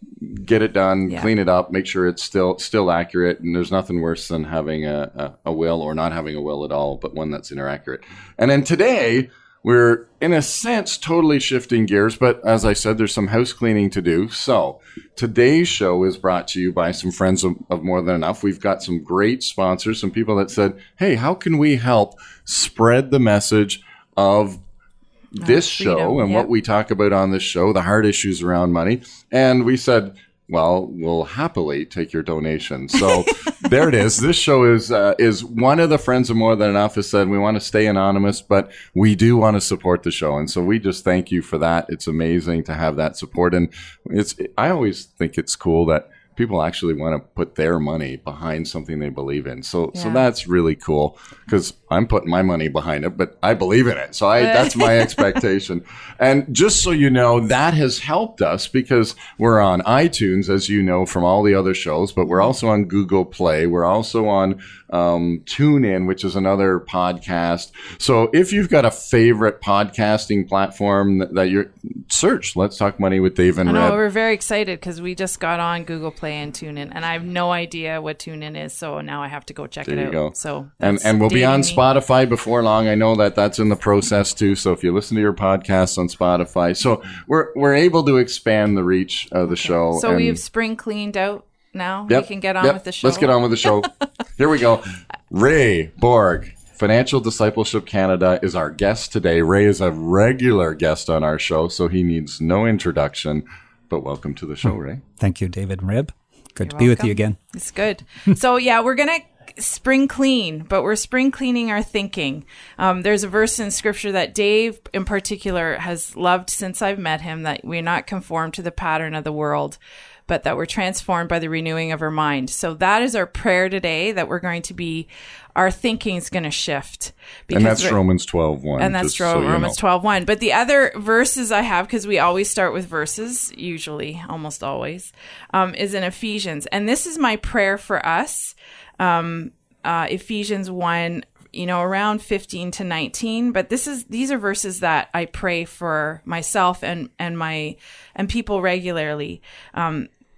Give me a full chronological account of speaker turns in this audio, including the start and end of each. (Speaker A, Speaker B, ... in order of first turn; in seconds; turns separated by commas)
Speaker A: 0.2-24.6, Speaker A: 25.4-74.0, Speaker B: 25.4-26.5, Speaker B: 49.9-50.2, Speaker B: 54.4-55.3, Speaker B: 62.2-62.5, Speaker B: 73.6-81.8, Speaker A: 79.8-90.4, Speaker B: 89.5-93.9, Speaker A: 92.1-105.0, Speaker C: 104.6-107.4, Speaker B: 106.6-128.0, Speaker A: 127.5-129.8, Speaker B: 128.8-150.1